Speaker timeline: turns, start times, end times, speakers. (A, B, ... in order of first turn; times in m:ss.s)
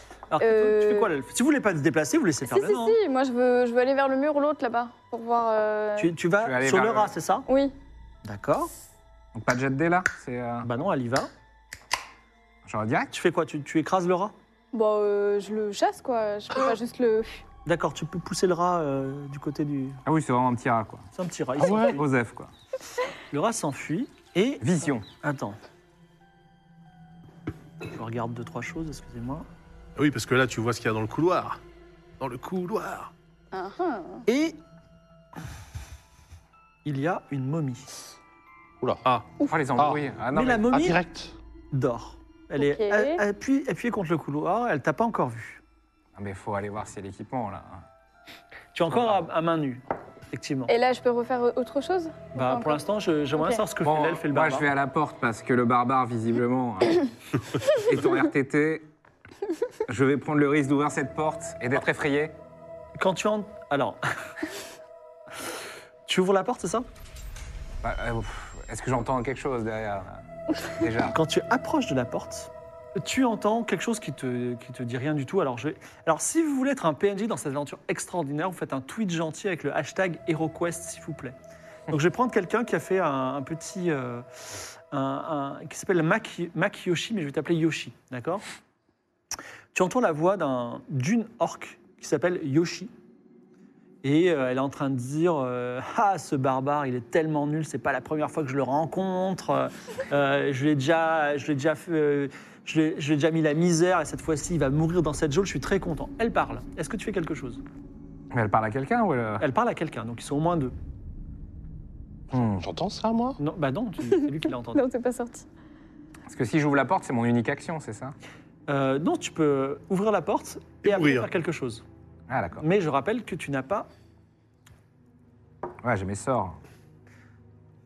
0:00.3-0:03.0 A
0:00.4-0:01.1 B
0:02.5-0:06.1 B
0:06.0-0:07.5 A
0:06.4-0:07.1 C
0:07.5-0:07.7 B
0:08.2-0:08.7 A
0:09.4-0:10.7 C
0:10.6-0:11.3 A
0:12.6-0:13.1 C
0:13.1-0:14.3 A
0:14.7-0:17.4 B
0:17.6-0:20.0 A
0:20.0-0:21.1 C
0:21.2-0:22.0 A
0:21.6-0:22.0 D
0:21.8-0:22.5 C
0:23.3-0:25.6 A
0:24.6-0:25.1 C
0:27.9-0:29.5 A
0:30.0-0:31.6 E
0:32.2-0:33.1 E
0:33.5-0:34.2 B
0:34.3-0:34.6 A
0:36.8-0:37.9 A
0:38.8-0:39.1 D
0:39.0-0:39.3 E
0:39.5-0:40.8 C
0:39.8-0:40.0 D
0:40.3-0:41.0 A
0:40.7-0:41.3 D
0:41.7-0:45.6 A
0:42.6-0:43.2 B
0:46.2-0:47.8 C
0:48.7-0:50.7 A
0:48.9-0:49.2 C
0:50.7-0:52.8 B
0:52.4-0:54.7 A
0:53.8-0:57.1 C
0:57.6-0:58.9 C
0:59.9-1:02.4 C
1:03.0-1:04.0 A
1:06.1-1:06.9 A
1:07.8-1:11.2 C
1:11.1-1:21.4 A
1:21.9-1:24.3 A
1:24.9-1:28.4 A
1:29.7-1:32.9 A
1:34.0-1:47.6 A
1:48.3-1:49.4 C
1:49.4-1:50.7 A
1:52.3-1:52.7 C
1:52.3-1:53.4 D
1:53.4-1:54.8 A
1:54.8-1:55.5 B
1:56.3-1:58.2 C
1:58.7-2:01.8 A
2:00.8-2:01.3 E
2:02.3-2:02.6 C
2:02.6-2:03.9 A
2:05.8-2:06.6 C